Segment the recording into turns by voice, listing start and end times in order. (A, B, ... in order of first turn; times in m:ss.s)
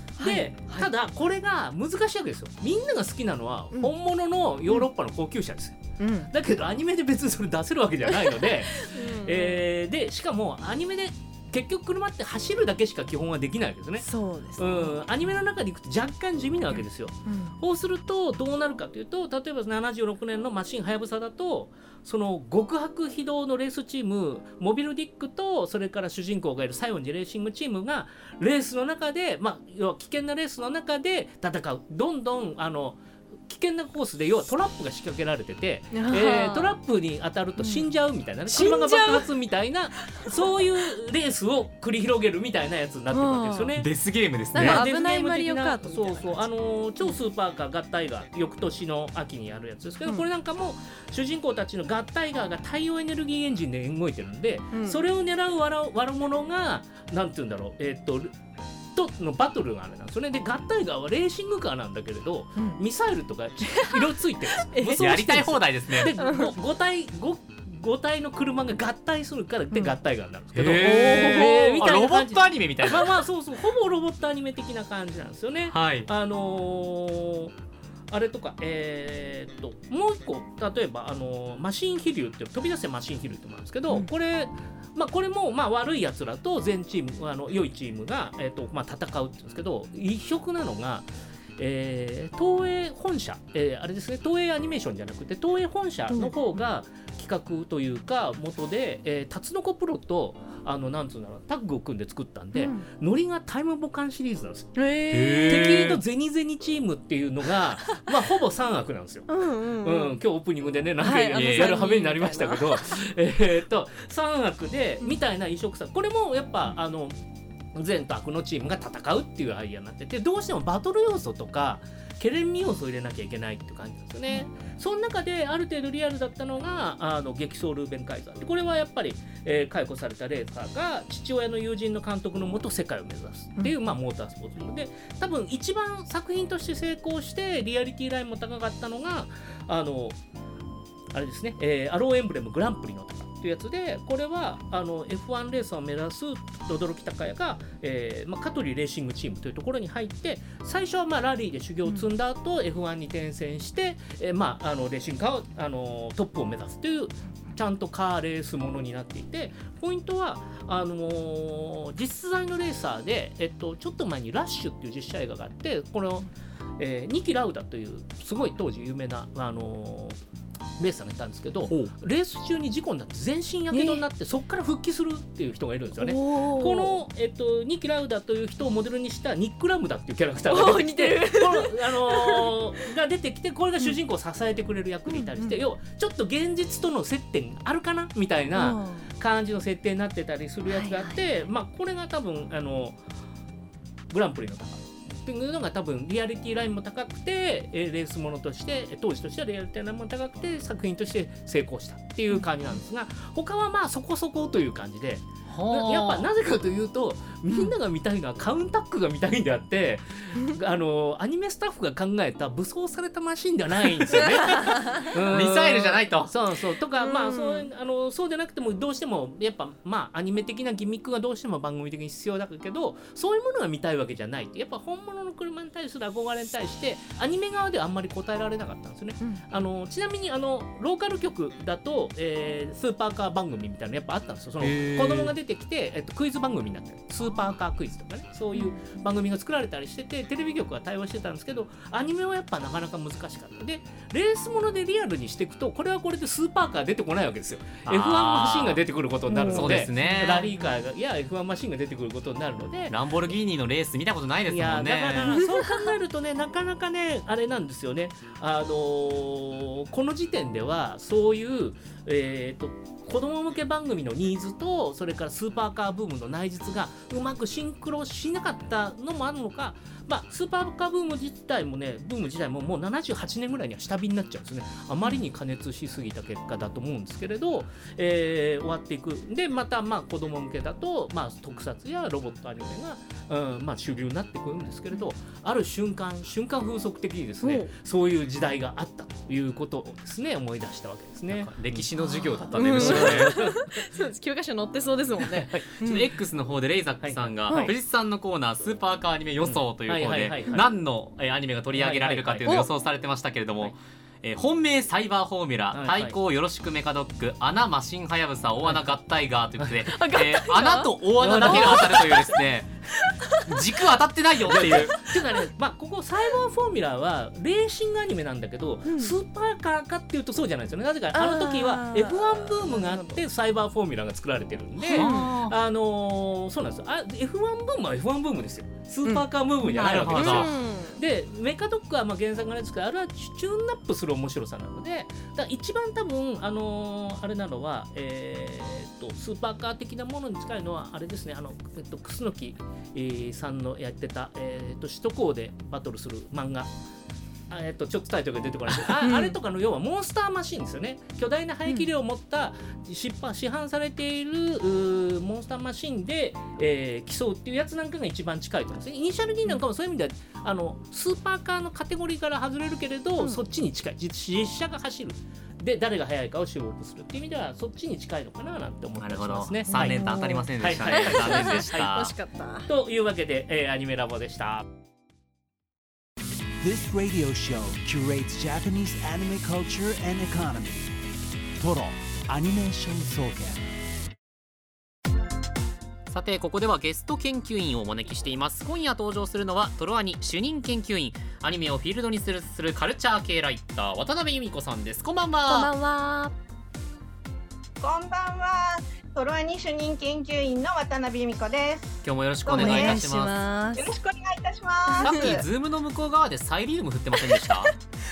0:00.2-0:00.9 A
0:00.2-0:43.9 B
0:06.0-0:06.3 A
0:08.3-0:09.6 A
0:14.0-0:15.0 A
0:17.2-0:17.6 A
0:35.9-0:36.8 A
0:37.6-0:37.9 A
0:38.5-0:39.3 A
0:40.1-0:40.4 A
0:43.1-0:43.7 A
0:43.7-0:44.8 C
0:44.5-0:46.4 A
0:44.5-0:58.3 B
0:54.7-0:55.0 A
0:58.9-1:17.5 B
1:04.7-1:05.0 A
1:05.0-1:06.1 C
1:10.5-1:13.1 C
1:11.0-1:11.8 A
1:15.7-1:16.1 C
1:18.1-1:44.8 B
1:36.1-1:36.4 A
1:42.5-1:42.9 A
1:44.8-1:45.8 A
1:45.1-1:46.0 C
1:45.5-1:57.2 B
1:49.3-1:50.2 A
1:51.0-1:52.9 A
1:51.3-1:51.7 C
1:57.7-2:20.2 B
2:21.1-2:50.2 B
2:50.8-3:13.0 B
2:51.6-2:51.9 C
2:53.7-2:54.0 A
2:56.0-2:57.0 A
3:00.5-3:02.5 A
3:05.1-3:05.6 A
3:08.5-3:09.1 A
3:10.7-3:11.2 A
3:14.1-4:13.0 B
3:25.5-3:26.3 C
3:34.6-3:35.0 A
3:35.0-3:36.3 C
3:37.0-3:37.7 A
3:54.6-3:55.3 C
3:58.5-3:58.8 A
4:07.8-4:08.8 C
4:09.3-4:10.5 A
4:09.5-4:10.5 C
4:12.9-4:15.4 C
4:14.5-4:51.9 B
4:15.4-4:15.7 A
4:47.4-4:47.7 A
4:51.3-4:53.6 C
4:52.5-4:56.0 A
4:52.7-4:53.8 B
4:55.2-4:55.8 B
4:55.8-5:12.7 C
4:57.0-4:57.7 B
4:57.5-4:57.7 A
4:59.4-5:00.6 B
5:01.7-5:02.5 B
5:05.7-5:06.2 B
5:09.8-5:12.3 A
5:11.2-5:12.2 B
5:13.0-5:13.5 A
5:13.4-5:15.0 C
5:14.5-5:46.7 B
5:14.5-5:15.4 A
5:18.8-5:19.1 A
5:21.1-5:23.2 A
5:24.8-5:25.3 A
5:24.9-5:25.6 C
5:29.6-5:30.5 C
5:30.1-5:31.0 A
5:47.5-6:10.0 B
5:49.0-5:49.3 A
6:09.0-6:12.1 C
6:09.7-6:12.7 A
6:10.6-6:11.9 B
6:12.7-6:14.6 B
6:16.6-6:20.9 D
6:21.6-6:23.7 D
6:26.1-6:35.7 C
6:35.5-6:36.3 A
6:37.8-6:43.0 E
6:42.0-6:43.3 C
6:42.5-6:43.9 A
6:43.8-6:45.4 E
6:44.9-6:45.4 A
6:45.0-6:47.7 C
6:47.2-6:47.7 A